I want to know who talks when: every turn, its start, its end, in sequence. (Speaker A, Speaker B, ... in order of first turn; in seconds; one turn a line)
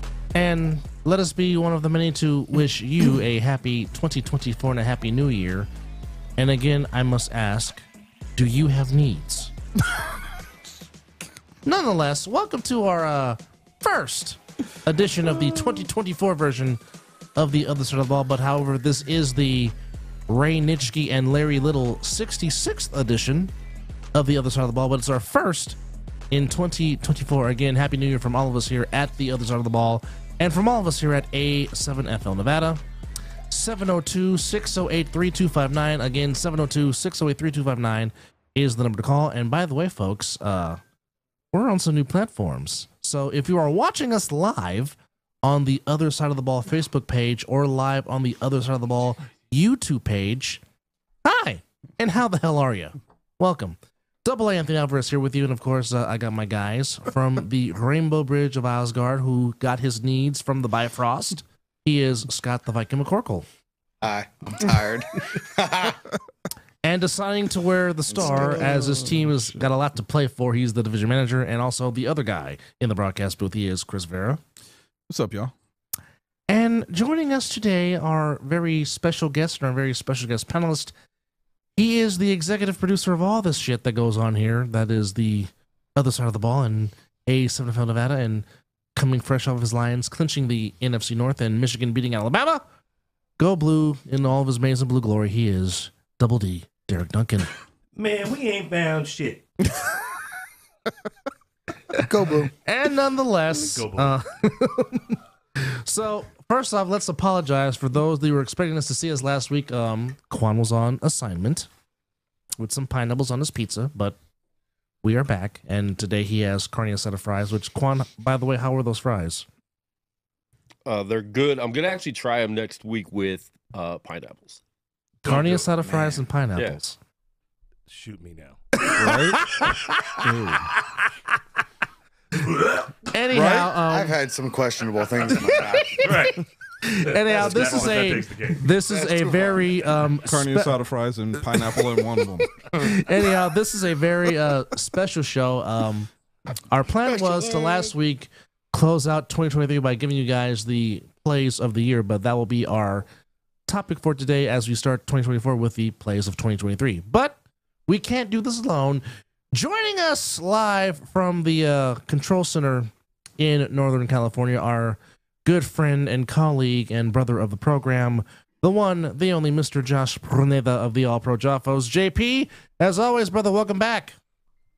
Speaker A: 0.3-5.7
Speaker A: 6.4-7.8
Speaker A: 8.4-9.5
Speaker A: 11.7-16.8
Speaker A: 17.4-19.7
Speaker A: 20.3-23.5
Speaker A: 24.1-25.8
Speaker A: 26.3-32.8
Speaker A: 33.5-40.8
Speaker A: 41.5-50.6
Speaker A: 51.2-63.5
Speaker B: 64.0-66.0
Speaker A: 66.8-74.4
Speaker B: 68.1-69.0
Speaker C: 68.2-69.6
Speaker C: 75.1-75.5
Speaker A: 76.5-80.9
Speaker A: 81.8-92.6
Speaker A: 93.4-97.5
Speaker D: 98.0-99.5
Speaker B: 102.0-102.5
Speaker A: 102.7-111.7
Speaker D: 103.6-104.2
Speaker A: 112.6-114.2
Speaker A: 115.0-119.5
Speaker E: 120.8-124.6
Speaker A: 125.2-127.0
Speaker B: 125.8-126.2
Speaker D: 127.9-128.6
Speaker C: 129.0-129.5
Speaker A: 129.0-129.7
Speaker C: 130.2-130.7
Speaker D: 132.5-132.8
Speaker A: 133.1-134.2
Speaker C: 133.3-133.7
Speaker B: 133.8-136.1
Speaker D: 136.0-136.4
Speaker A: 136.8-140.8
Speaker D: 137.1-138.6
Speaker B: 137.3-138.1
Speaker B: 138.9-139.9
Speaker C: 140.2-142.5
Speaker A: 142.8-146.1
Speaker A: 146.7-153.1
Speaker B: 147.1-147.9
Speaker A: 153.7-157.4
Speaker A: 157.9-174.2